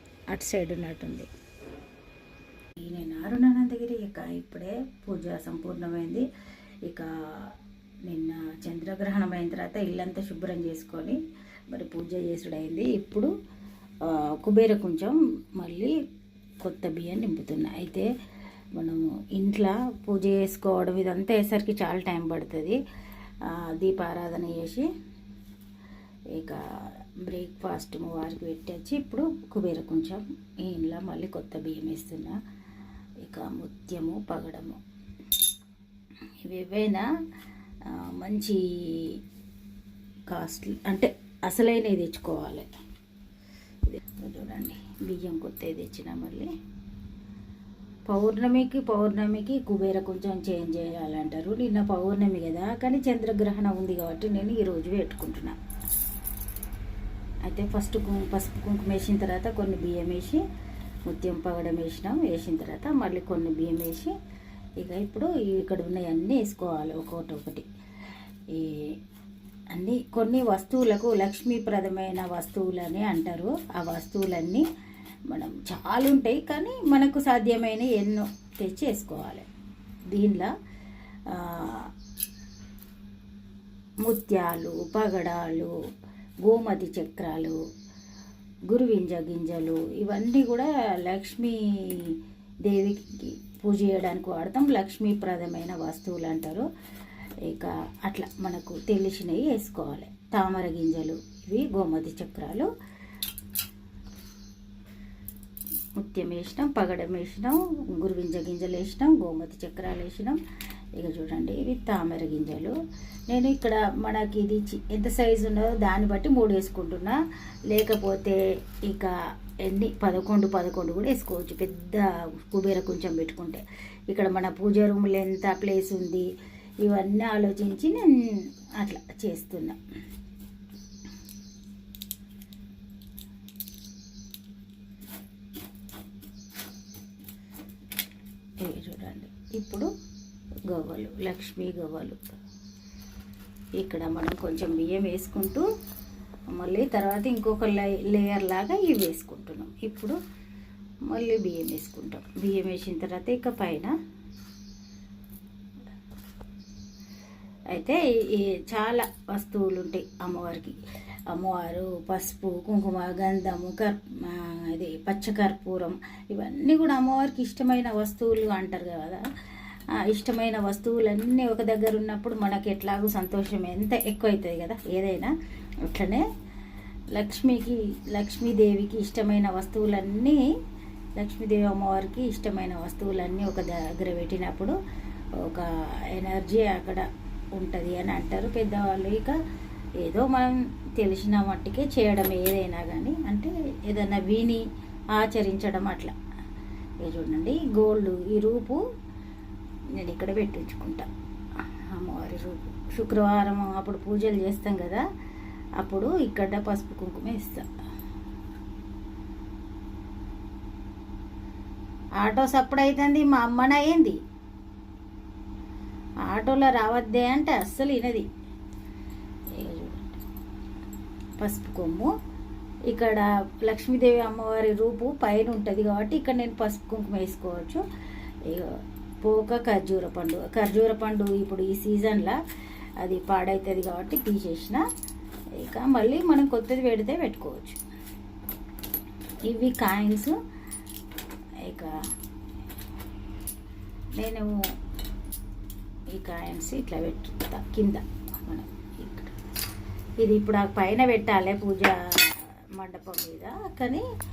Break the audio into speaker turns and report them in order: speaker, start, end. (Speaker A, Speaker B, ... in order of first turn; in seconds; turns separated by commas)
Speaker A: 0.3-1.3, Speaker A: 2.8-6.3, Speaker A: 6.8-7.5, Speaker A: 8.1-11.2, Speaker A: 11.7-13.3, Speaker A: 14.0-16.0, Speaker A: 16.6-18.1, Speaker A: 18.8-22.8, Speaker A: 23.4-24.9, Speaker A: 26.3-26.6, Speaker A: 27.2-32.4, Speaker A: 33.2-34.8, Speaker A: 36.4-37.1, Speaker A: 37.9-39.2, Speaker A: 40.3-42.7, Speaker A: 43.9-46.5, Speaker A: 48.1-55.6, Speaker A: 57.5-60.4, Speaker A: 61.1-64.1, Speaker A: 64.8-67.7, Speaker A: 68.5-68.9, Speaker A: 69.7-74.7, Speaker A: 75.3-79.5, Speaker A: 80.1-80.5, Speaker A: 81.3-81.9, Speaker A: 84.0-85.7, Speaker A: 86.4-87.6, Speaker A: 88.7-96.7, Speaker A: 97.4-102.7, Speaker A: 106.0-110.4, Speaker A: 111.0-112.8, Speaker A: 113.3-126.3, Speaker A: 126.8-129.8, Speaker A: 138.6-139.9, Speaker A: 140.7-142.2, Speaker A: 143.8-145.7, Speaker A: 146.5-150.2, Speaker A: 151.1-153.9, Speaker A: 157.7-160.8, Speaker A: 161.3-169.2, Speaker A: 169.9-175.3, Speaker A: 175.8-176.3, Speaker A: 177.1-180.4, Speaker A: 181.2-184.8, Speaker A: 185.4-189.4, Speaker A: 190.0-194.6, Speaker A: 195.1-196.1, Speaker A: 197.0-198.8, Speaker A: 200.0-201.1, Speaker A: 201.9-205.1, Speaker A: 205.8-207.7, Speaker A: 212.2-214.2, Speaker A: 216.3-218.3, Speaker A: 219.5-220.2, Speaker A: 221.4-222.1, Speaker A: 222.9-227.8, Speaker A: 228.4-232.4, Speaker A: 233.0-234.8, Speaker A: 235.6-237.8, Speaker A: 239.5-240.3, Speaker A: 241.6-241.9, Speaker A: 244.2-244.6, Speaker A: 246.1-249.3, Speaker A: 250.2-254.1